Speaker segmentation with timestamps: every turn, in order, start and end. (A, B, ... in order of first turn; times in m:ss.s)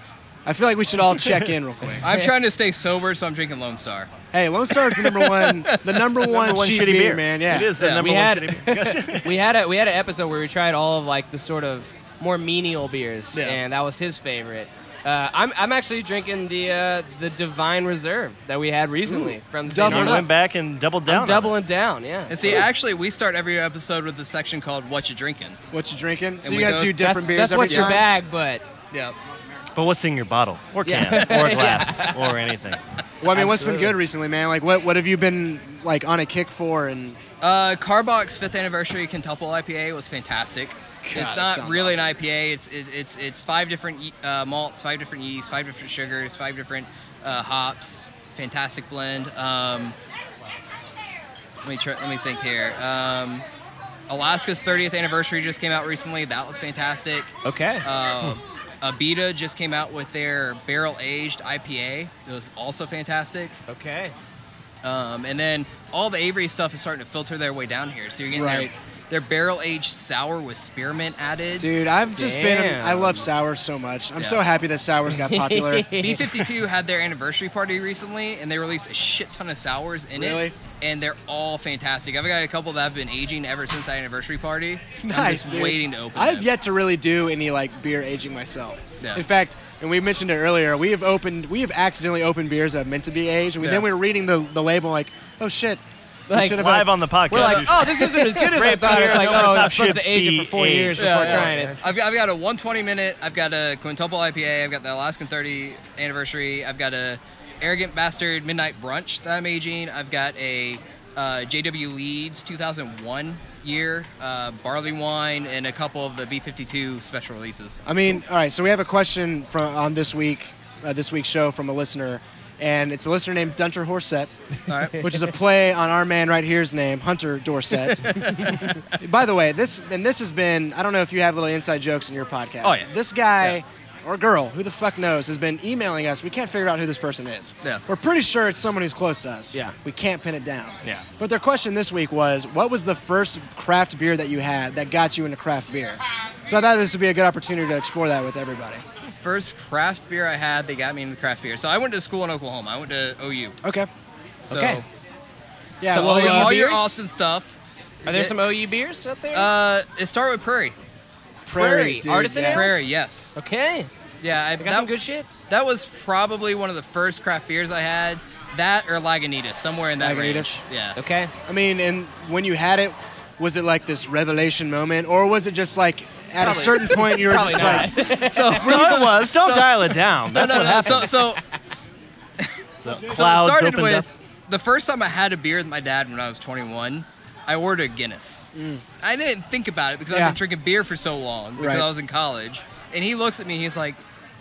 0:00.4-0:02.0 A
0:02.0-0:04.1 B
0:02.0-0:02.3 C
0:04.3-0:07.7 A
0:04.8-0:06.1 B
0:06.2-0:09.4 D
0:07.8-0:08.0 B
0:07.9-0:20.3 C
0:13.3-0:13.6 B
0:19.0-0:20.3 A
0:19.8-0:21.6 D
0:21.0-0:22.6 C
0:22.3-0:25.6 B
0:25.7-0:28.0 A
0:26.4-0:27.0 B
0:26.7-0:28.6 C
0:27.7-0:28.0 B
0:28.9-0:29.2 B
0:29.7-0:32.8 D
0:30.8-0:32.2 C
0:31.2-0:31.5 B
0:33.2-0:37.2 A
0:33.3-0:34.0 C
0:37.4-0:50.0 B
0:41.0-0:42.1 A
0:51.6-0:53.4 B
0:54.1-1:03.6 B
0:57.4-0:57.8 C
1:03.7-1:04.1 C
1:04.8-1:11.7 B
1:08.3-1:08.7 A
1:11.6-1:15.9 A
1:12.1-1:13.2 C
1:14.2-1:14.4 B
1:15.2-1:16.2 C
1:16.0-1:26.5 B
1:20.1-1:20.6 A
1:25.0-1:37.7 A
1:33.6-1:33.9 B
1:36.3-1:36.6 C
1:36.4-1:41.8 D
1:37.3-1:41.8 C
1:38.9-1:39.4 B
1:41.0-1:57.8 B
1:57.8-2:04.3 A
2:04.7-2:05.1 B
2:05.0-2:28.8 A
2:07.9-2:08.7 B
2:12.6-2:12.9 B
2:29.2-2:33.6 B
2:33.6-2:33.9 A
2:34.5-2:34.8 B
2:34.5-2:34.8 C
2:35.8-2:36.9 A
2:35.9-2:36.9 C
2:35.9-2:38.4 B
2:38.0-2:39.5 C
2:39.3-2:40.7 B
2:41.4-2:42.9 A
2:41.5-2:43.9 C
2:42.5-2:43.3 B
2:44.2-2:44.9 B
2:44.6-2:45.3 C
2:45.5-2:51.0 B
2:50.0-2:50.6 A
2:51.0-2:51.3 C
2:51.5-2:58.0 A
2:56.4-2:58.6 C
2:57.4-3:01.3 D
2:58.2-3:01.4 B
3:00.8-3:01.0 C
3:02.4-3:08.5 B
3:02.8-3:04.1 D
3:08.5-3:08.8 A
3:09.0-3:14.0 B
3:10.1-3:10.4 A
3:11.6-3:11.9 A